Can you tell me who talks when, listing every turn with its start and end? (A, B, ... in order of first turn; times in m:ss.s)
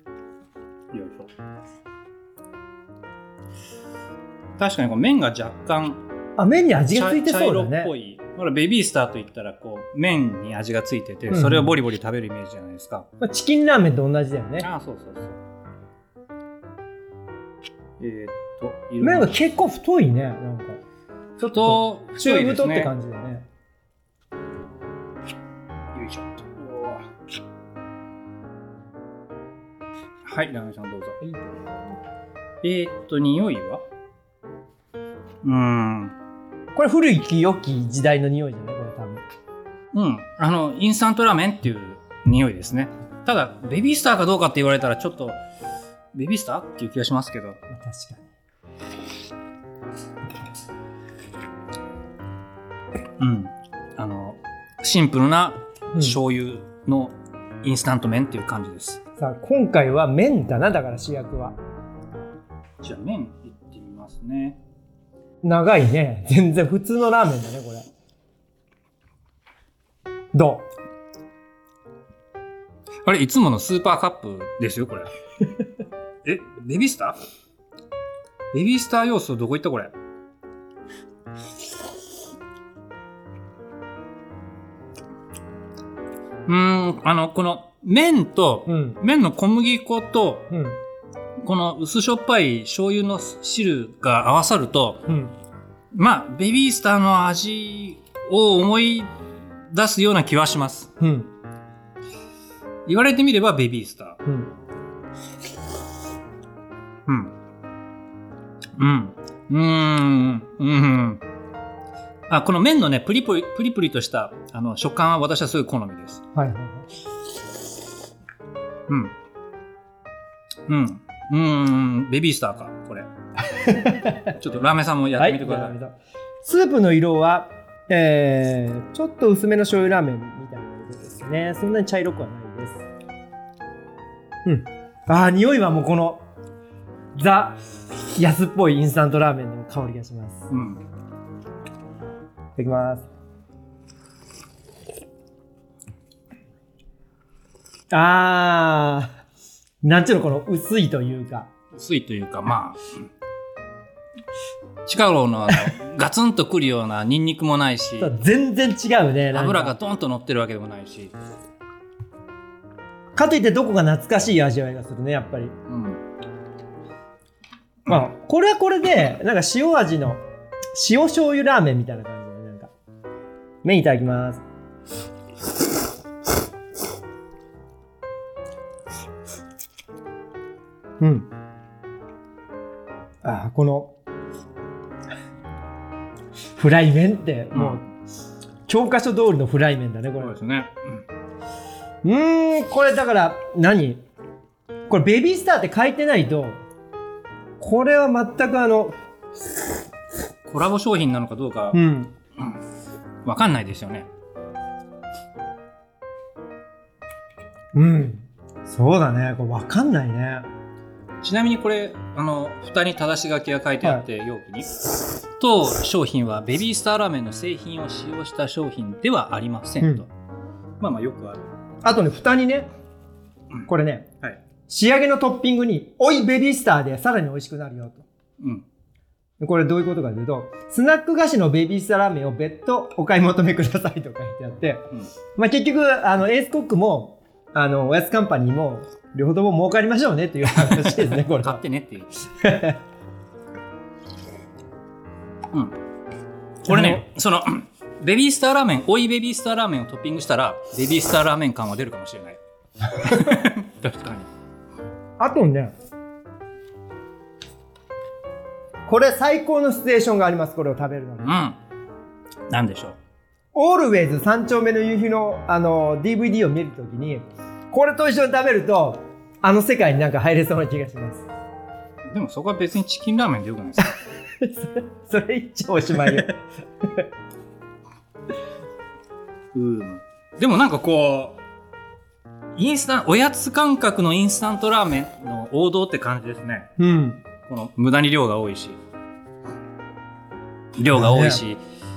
0:00.9-0:01.3 A
0:04.6-0:06.0 A
0:06.4-0:07.9 B
0:06.9-0:13.1 A
0:11.3-0:11.7 B
0:13.2-0:14.7 B
0:14.6-0:15.4 A
0:18.0-0:19.4 A
0:19.0-0:20.8 B
0:21.4-0:23.4 B
0:21.4-0:22.9 A
0:25.9-0:27.1 A
0:30.2-0:31.2 A
0:31.2-0:31.7 B
0:32.6-0:33.8 A
0:35.4-0:36.2 A
0:36.7-0:39.2 B
0:39.9-0:45.4 A
0:46.1-0:47.6 A
0:47.7-0:48.3 B
0:53.2-0:59.0 A
0:59.2-1:01.6 B
1:02.8-1:04.6 A
1:05.4-1:07.9 B
1:10.3-1:10.7 B
1:13.0-1:15.1 A
1:16.2-1:17.2 A
1:18.5-1:19.9 A
1:26.4-1:30.5 A
1:28.7-1:29.0 B
1:30.5-1:30.8 B
1:31.4-1:35.1 A
1:35.1-1:35.3 B
1:35.9-1:40.9 A
1:41.0-1:41.3 B
1:42.8-1:44.2 A
1:44.2-1:44.5 B
1:47.0-1:47.3 A
1:48.8-1:51.2 A
1:52.3-1:56.2 A
1:56.3-1:56.9 B
1:58.9-1:59.1 A
2:00.7-2:03.1 A
2:03.5-2:04.3 B
2:04.3-2:05.7 A
2:05.2-2:12.8 B
2:14.4-2:16.2 B
2:17.1-2:17.6 B
2:18.1-2:20.5 B
2:20.5-2:20.8 A
2:22.6-2:23.0 B
2:27.9-2:29.1 B
2:29.8-2:31.5 B
2:31.7-2:32.8 A
2:34.8-2:38.1 A
2:38.0-2:39.7 B
2:39.3-2:41.1 A
2:43.2-2:45.6 B
2:45.7-2:46.0 A
2:47.9-2:52.7 B
2:53.6-2:54.4 B
3:01.0-3:01.3 B
3:03.2-3:03.9 B
3:06.6-3:07.9 B
3:07.5-3:07.8 A
3:08.7-3:10.4 B
3:10.2-3:11.0 A
3:12.0-3:14.0 B
3:14.9-3:16.6 B
3:17.6-3:19.0 B
3:20.4-3:21.8 A
3:21.7-3:22.1 B
3:23.2-3:24.1 A
3:27.7-3:30.5 B
3:31.2-3:34.8 A
3:35.4-3:40.1 A
3:40.8-3:41.5 A
3:41.8-3:42.7 B
3:43.6-3:44.1 B
3:44.7-3:48.0 B
3:48.4-3:48.6 A
3:49.4-4:01.6 B
4:00.5-4:02.1 A
4:02.4-4:02.8 B
4:06.6-4:12.4 A
4:06.6-4:07.0 B
4:13.0-4:14.3 A
4:15.2-4:15.7 B
4:18.9-4:21.4 B
4:21.2-4:21.6 A
4:22.5-4:23.0 A
4:23.5-4:31.2 B
4:32.0-4:33.9 A
4:34.4-4:37.0 B
4:35.9-4:36.2 A
4:39.5-4:41.4 A
4:42.5-4:46.7 A
4:46.8-4:47.2 B
4:47.4-4:48.8 A
4:50.8-4:51.6 A
4:50.9-4:51.4 B